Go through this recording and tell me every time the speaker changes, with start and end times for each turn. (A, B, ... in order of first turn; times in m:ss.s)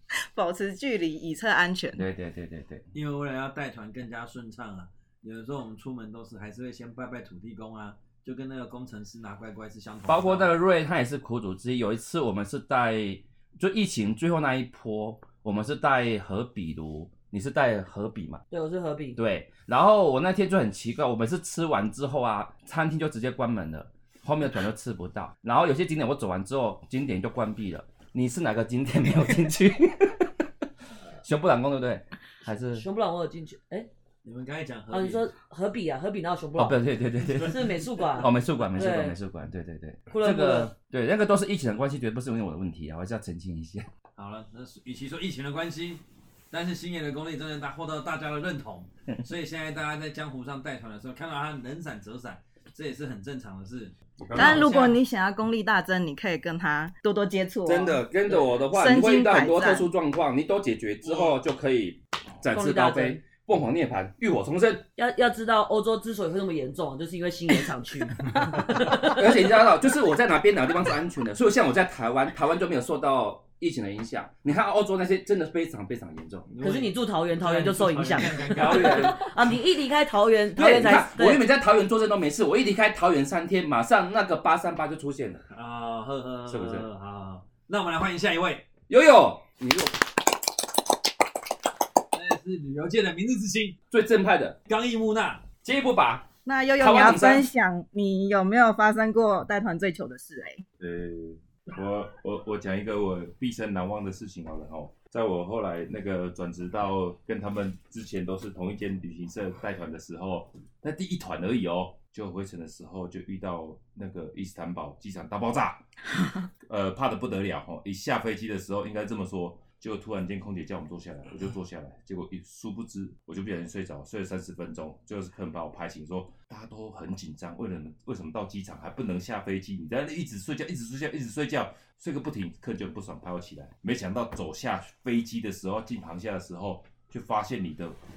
0:00.3-0:02.0 A
0:01.9-0:02.8 B
0:02.9-0:10.5 C
0:10.1-0:18.4 B
0:18.5-0:19.2 D
0:19.1-0:30.3 B
0:31.2-0:32.8 B
0:32.7-0:33.9 D
0:34.2-0:35.3 C
0:34.9-0:36.8 D
0:36.6-0:43.9 B
0:37.4-0:39.2 D
0:40.1-0:40.7 D
0:44.2-0:55.0 C
0:54.2-0:54.6 B
0:54.3-0:59.9 A
0:57.6-1:04.8 B
1:02.5-1:03.2 D
1:05.0-1:09.1 D
1:08.5-1:16.5 B
1:16.5-1:19.2 C
1:16.6-1:21.4 D
1:18.4-1:19.5 B
1:20.6-1:25.4 B
1:25.5-1:28.7 C
1:26.5-1:26.9 B
1:28.9-1:30.0 B
1:32.1-1:33.8 C
1:33.9-1:34.6 B
1:34.6-1:35.5 C
1:35.6-1:37.5 B
1:36.4-1:40.6 A
1:40.8-1:55.8 E
1:56.6-2:18.0 E